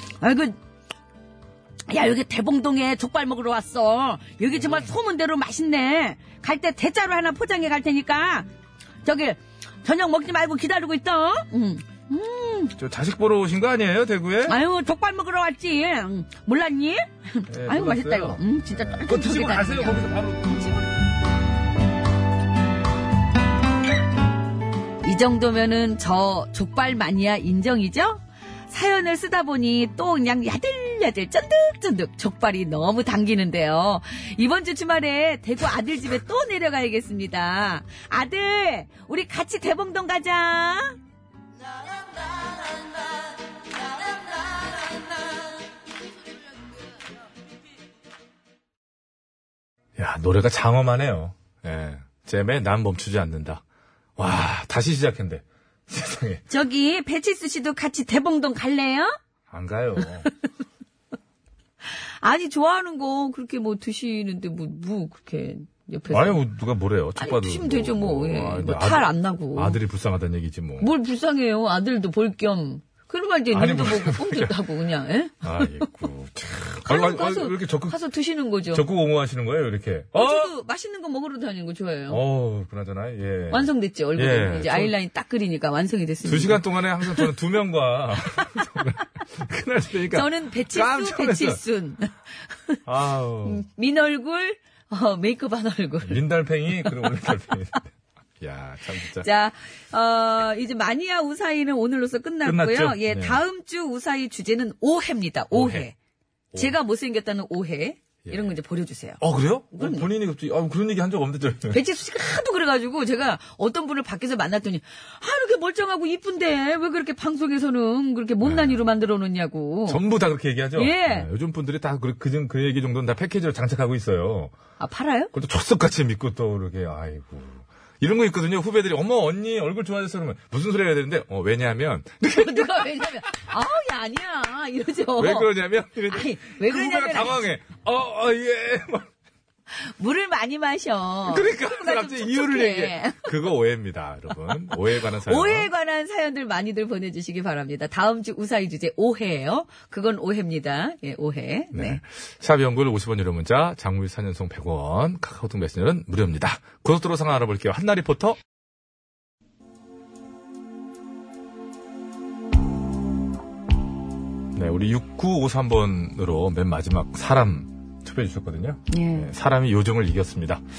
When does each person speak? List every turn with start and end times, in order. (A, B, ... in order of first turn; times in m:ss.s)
0:00.2-0:00.6 A
0:01.9-0:08.5 A
0:09.0-0:12.7 A
0:12.8-0:14.6 B
0:14.4-0:20.8 A
0:17.5-0:20.8 B
0:25.0-0:41.0 A
0:50.0-0:53.6 B
0:54.2-0:56.4 B
0:56.5-0:59.1 A
0:59.5-1:00.3 B
1:02.2-1:06.4 A
1:06.1-1:10.9 B
1:07.2-1:09.8 A
1:10.8-1:15.9 A
1:13.5-1:14.5 B
1:15.4-1:18.0 B
1:16.9-1:18.8 A
1:18.7-1:20.5 B
1:20.1-1:22.2 A
1:22.1-1:24.9 B
1:23.5-1:27.3 A
1:26.2-1:31.6 B
1:30.1-1:32.8 A
1:32.8-1:33.6 B
1:33.4-1:36.2 A
1:36.0-1:37.9 B
1:36.8-1:37.1 A
1:38.4-1:39.3 B
1:39.2-1:45.9 A
1:42.4-1:43.4 B
1:45.5-1:45.9 B
1:46.6-1:49.2 A
1:48.2-1:48.5 B
1:49.2-1:51.8 B
1:49.7-1:50.1 A
1:51.7-2:00.0 A
1:58.4-1:58.8 B
1:59.9-2:04.5 B
2:00.7-2:01.3 A
2:04.8-2:05.3 A
2:05.3-2:12.9 B
2:12.3-2:15.5 A
2:15.2-2:19.1 B
2:16.1-2:17.4 A
2:19.7-2:23.3 A
2:21.3-2:25.7 B
2:25.1-2:32.0 A
2:31.7-2:38.4 B
2:44.5-2:50.6 B
2:48.9-2:49.3 A